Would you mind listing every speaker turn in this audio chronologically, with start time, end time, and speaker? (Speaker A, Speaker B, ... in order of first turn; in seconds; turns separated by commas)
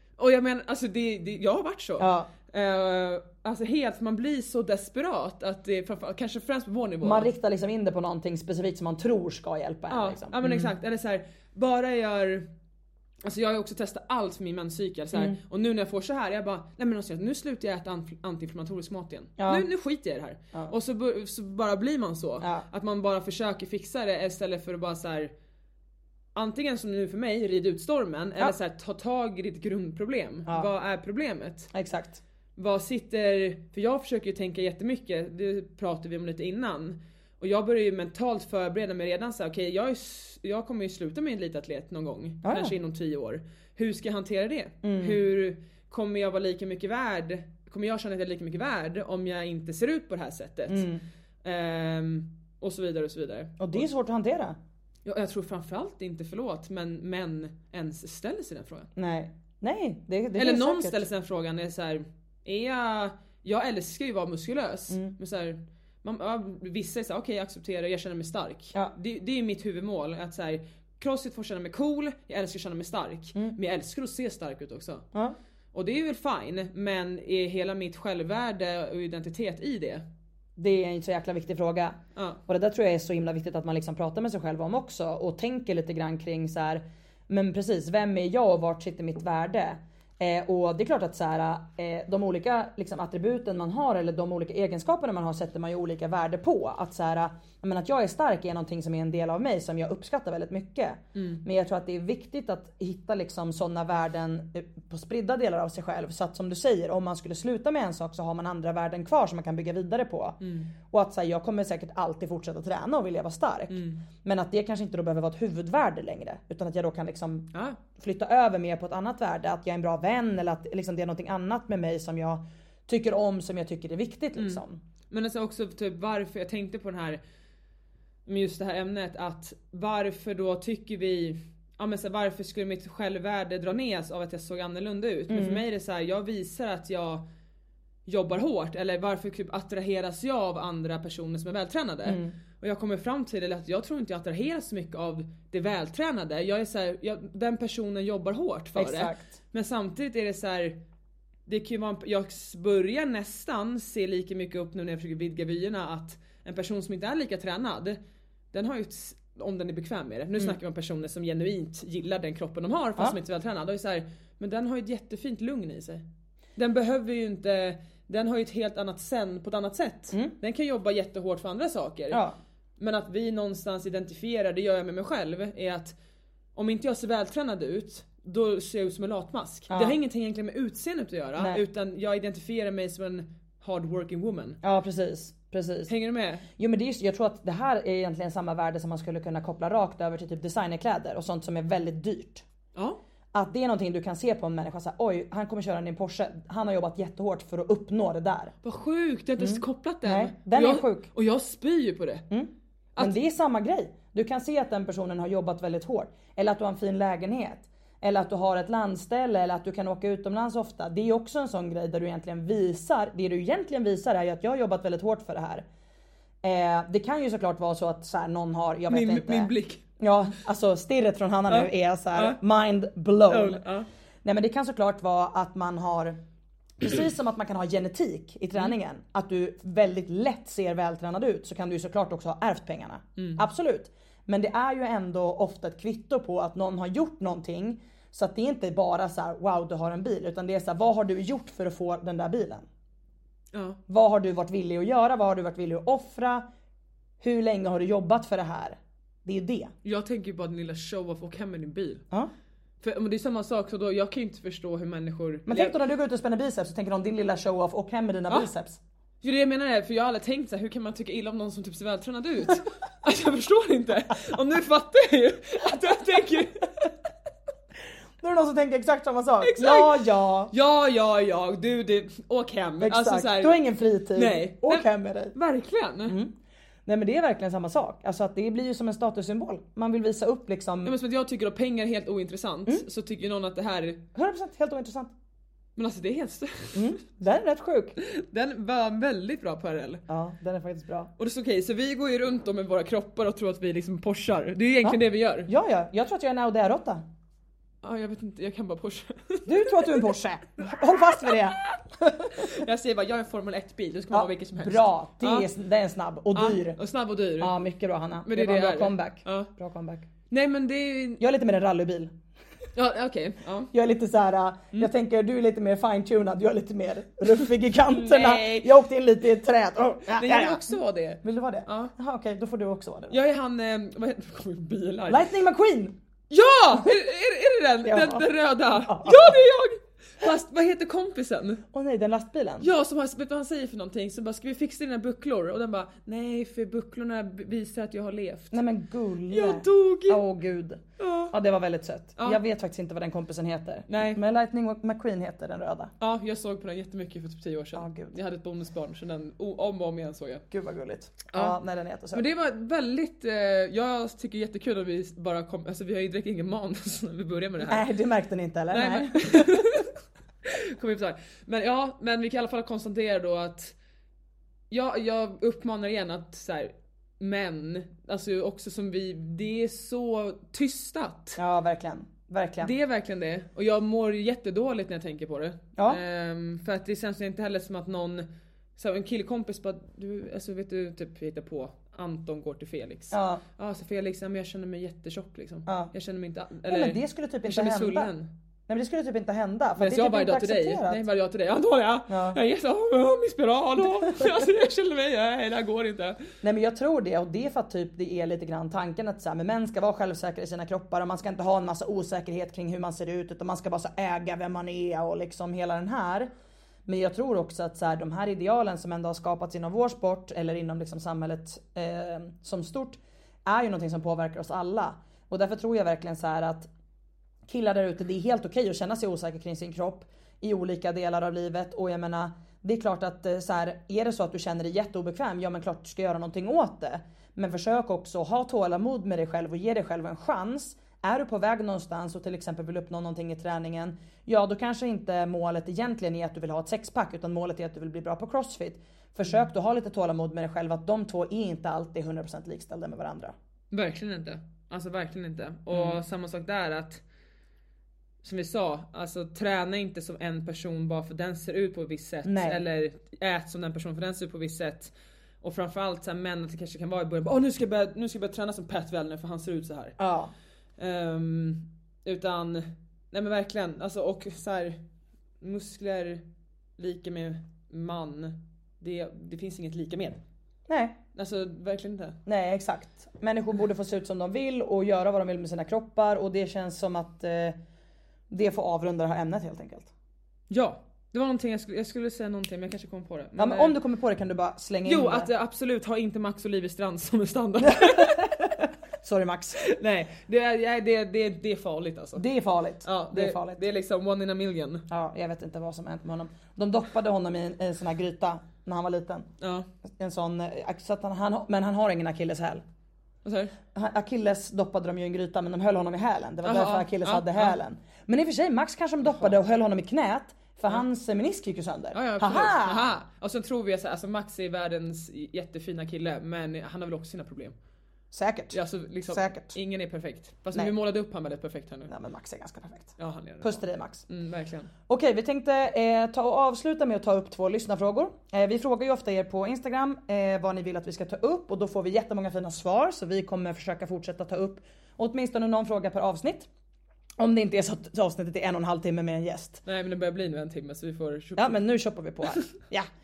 Speaker A: 0.2-7.3, Speaker B: 2.0-2.3, Speaker B: 7.0-10.7, Speaker A: 9.9-12.5, Speaker A: 13.2-25.3, Speaker B: 19.4-19.6, Speaker B: 22.4-22.6, Speaker A: 26.3-31.7, Speaker B: 31.7-32.2, Speaker A: 32.5-50.9, Speaker B: 42.4-42.7, Speaker B: 44.8-45.2, Speaker B: 50.7-51.0, Speaker A: 51.4-53.9, Speaker B: 53.6-54.5, Speaker A: 55.0-58.9, Speaker B: 59.0-61.0, Speaker A: 60.3-75.0, Speaker A: 75.7-80.0, Speaker B: 80.5-124.8, Speaker A: 101.1-101.4, Speaker A: 110.4-110.7, Speaker A: 113.7-114.0, Speaker A: 117.5-117.8, Speaker A: 124.4-127.2, Speaker A: 128.2-137.2, Speaker B: 135.3-135.6, Speaker A: 138.1-150.8, Speaker B: 142.1-142.3, Speaker B: 148.8-149.4, Speaker A: 151.5-158.0, Speaker A: 158.5-166.0, Speaker A: 166.6-172.2, Speaker B: 172.1-172.3, Speaker A: 172.8-175.9, Speaker A: 176.5-184.6, Speaker B: 179.7-180.0, Speaker B: 181.4-181.6, Speaker B: 184.6-185.9, Speaker A: 185.9-186.4, Speaker B: 186.6-192.4, Speaker A: 192.7-193.0, Speaker B: 193.3-198.5, Speaker A: 198.6-202.2, Speaker B: 199.4-201.1, Speaker B: 202.3-215.6, Speaker B: 216.4-223.6, Speaker A: 218.9-219.8, Speaker A: 221.5-222.4, Speaker A: 223.3-223.9, Speaker B: 224.2-226.2, Speaker B: 226.8-242.7, Speaker A: 243.5-243.8, Speaker B: 243.9-246.4, Speaker B: 247.2-249.7, Speaker A: 249.8-252.0, Speaker A: 252.8-255.7, Speaker B: 255.4-258.8, Speaker A: 259.2-266.9, Speaker B: 268.2-270.5, Speaker A: 269.4-273.6, Speaker B: 272.8-275.4, Speaker A: 274.1-276.1, Speaker B: 276.1-276.3, Speaker B: 276.9-280.9, Speaker A: 280.8-284.0, Speaker B: 284.1-285.1, Speaker A: 285.8-287.0, Speaker B: 286.7-287.9, Speaker A: 288.0-290.0, Speaker B: 290.1-291.1, Speaker A: 291.2-295.5, Speaker B: 294.8-297.0, Speaker A: 297.8-300.1, Speaker B: 299.5-302.5, Speaker A: 301.2-305.5, Speaker B: 304.1-306.8, Speaker A: 306.3-307.5, Speaker B: 307.4-310.1, Speaker A: 308.2-309.5, Speaker A: 310.3-311.2, Speaker B: 311.2-312.1, Speaker A: 312.7-313.7, Speaker B: 313.7-323.2, Speaker A: 317.9-318.7, Speaker A: 320.1-321.9, Speaker A: 323.1-325.3, Speaker B: 325.1-325.9, Speaker A: 326.3-331.6, Speaker B: 327.8-328.2, Speaker B: 328.8-329.4, Speaker B: 331.7-332.7, Speaker A: 332.6-338.6, Speaker B: 338.5-345.9, Speaker A: 339.3-340.2, Speaker A: 341.0-341.3, Speaker A: 343.9-344.2, Speaker A: 346.0-350.4, Speaker B: 347.8-348.1, Speaker B: 350.5-352.2, Speaker A: 351.3-351.6, Speaker A: 352.1-357.9, Speaker B: 357.6-359.6, Speaker A: 358.7-359.9, Speaker A: 360.4-363.7, Speaker A: 364.7-371.4, Speaker B: 371.4-372.7, Speaker A: 372.6-378.2, Speaker A: 378.8-388.3, Speaker B: 383.1-383.4, Speaker B: 385.7-385.9, Speaker B: 386.7-388.1, Speaker B: 388.7-391.0, Speaker A: 389.8-396.2, Speaker B: 392.1-392.4, Speaker B: 396.4-406.3, Speaker B: 406.9-416.7, Speaker B: 417.5-443.3, Speaker A: 443.7-447.0, Speaker B: 445.7-446.0, Speaker A: 448.2-460.0, Speaker B: 452.2-452.6, Speaker B: 460.0-460.3, Speaker A: 460.8-464.8, Speaker A: 465.4-466.2, Speaker A: 466.8-470.2, Speaker B: 470.7-471.0, Speaker A: 471.1-472.2, Speaker B: 472.2-477.6, Speaker B: 478.3-479.9, Speaker A: 480.5-483.8, Speaker B: 483.4-485.3, Speaker A: 484.8-488.6, Speaker B: 487.7-488.2, Speaker B: 489.0-489.6, Speaker A: 489.6-492.2, Speaker B: 492.1-493.6, Speaker A: 492.8-494.9, Speaker B: 494.9-499.3, Speaker A: 499.4-499.7, Speaker B: 500.0-502.6, Speaker A: 503.2-503.5, Speaker B: 503.7-512.9, Speaker A: 506.4-507.6, Speaker A: 511.9-517.5, Speaker B: 518.1-519.5, Speaker A: 518.5-521.9, Speaker B: 521.9-524.0, Speaker A: 523.0-524.7, Speaker B: 524.9-536.5, Speaker B: 537.2-539.6, Speaker A: 539.6-541.6, Speaker B: 541.4-542.9